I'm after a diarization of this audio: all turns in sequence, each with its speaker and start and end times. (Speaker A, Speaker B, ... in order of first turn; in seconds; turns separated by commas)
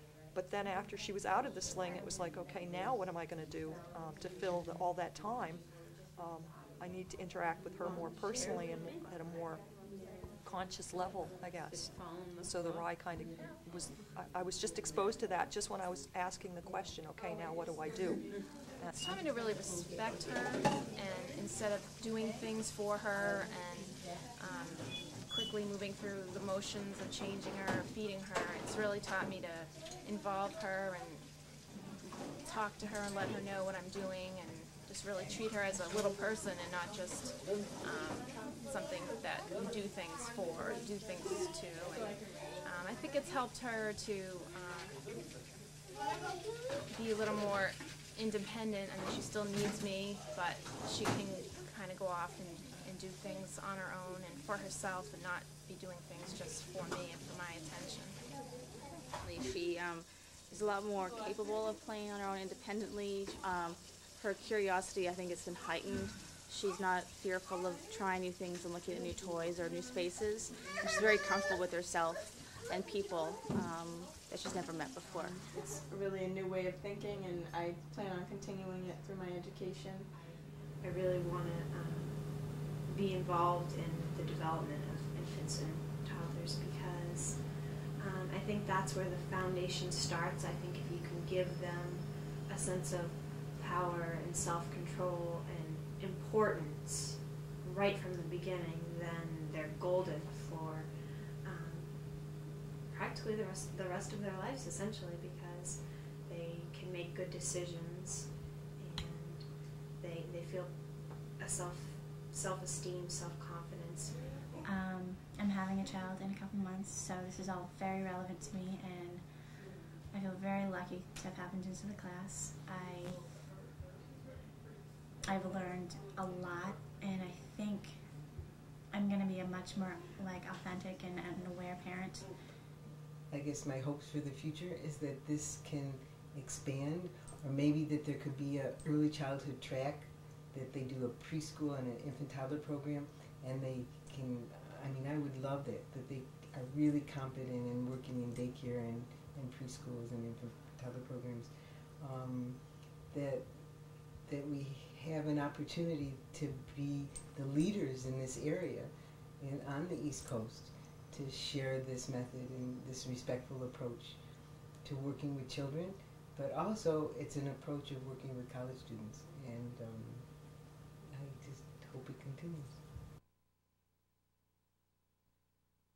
Speaker A: 0.3-9.8, Speaker A: 10.4-18.9, Speaker B: 18.9-31.3, Speaker B: 32.4-45.1, Speaker B: 46.9-58.2, Speaker C: 59.2-75.4, Speaker D: 75.5-80.1, Speaker E: 80.8-100.9, Speaker E: 101.4-102.3, Speaker E: 102.9-109.5, Speaker E: 110.0-114.4, Speaker F: 114.6-119.3, Speaker F: 120.1-123.3, Speaker F: 125.3-128.0, Speaker F: 128.9-132.3, Speaker G: 133.3-152.6, Speaker G: 153.1-153.5, Speaker G: 154.3-164.2, Speaker G: 164.8-170.3, Speaker G: 171.1-172.8